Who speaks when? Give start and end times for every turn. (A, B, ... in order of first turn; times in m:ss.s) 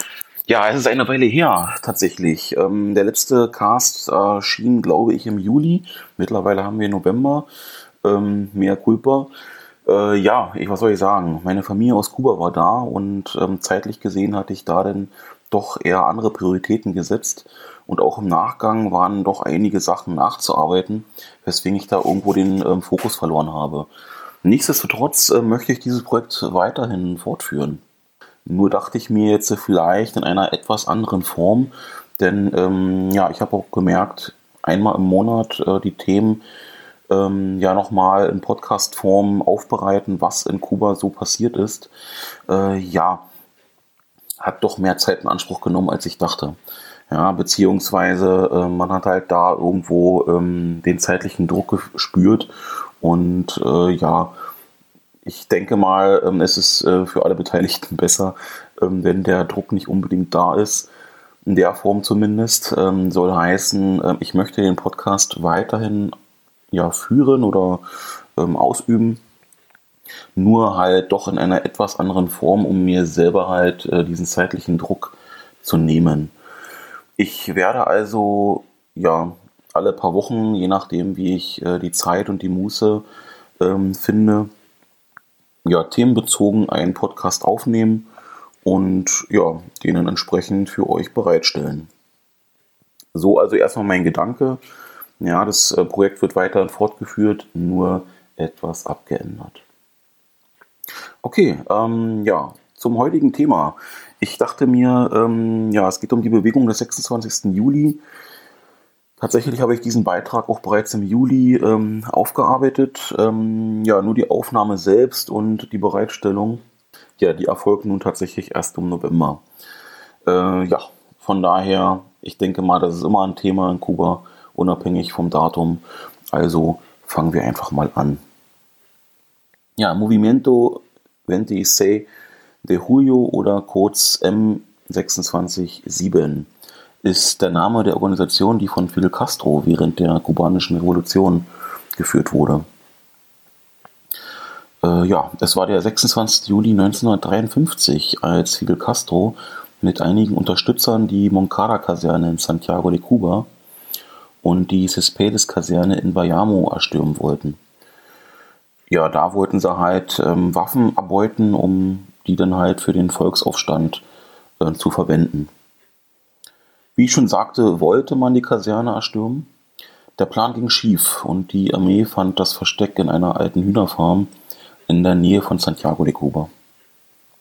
0:00.5-0:07.5 A
0:08.0-0:09.3 A
0:09.9-0:23.9 A
0:24.4-0:27.8 A
0:28.4-0:36.4 A
0:37.1-0:41.9 A
0:42.5-0:43.2 A
0:44.4-0:46.6 A
0:47.1-0:52.5 A
0:53.0-0:54.3 A
0:55.2-1:00.9 A
1:01.4-1:06.1 A
1:06.7-1:07.8 A
1:08.4-1:09.2 A
1:10.4-1:16.3 A
1:17.2-1:23.0 A
1:23.6-1:24.5 A
1:25.6-1:28.1 A
1:28.6-1:31.9 A
1:33.1-1:34.6 A
1:35.2-1:39.6 A
1:41.2-1:48.0 A
1:49.2-1:56.6 A
1:57.2-1:59.4 A
2:00.3-2:08.2 A
2:09.8-2:12.1 A
2:12.6-2:16.5 A
2:17.0-2:22.6 A
2:24.8-2:33.5 A
2:34.4-2:37.6 A
2:38.9-2:44.0 A
2:44.6-2:45.5 A
2:47.0-2:49.5 A
2:50.2-2:54.3 A
2:54.9-2:56.5 A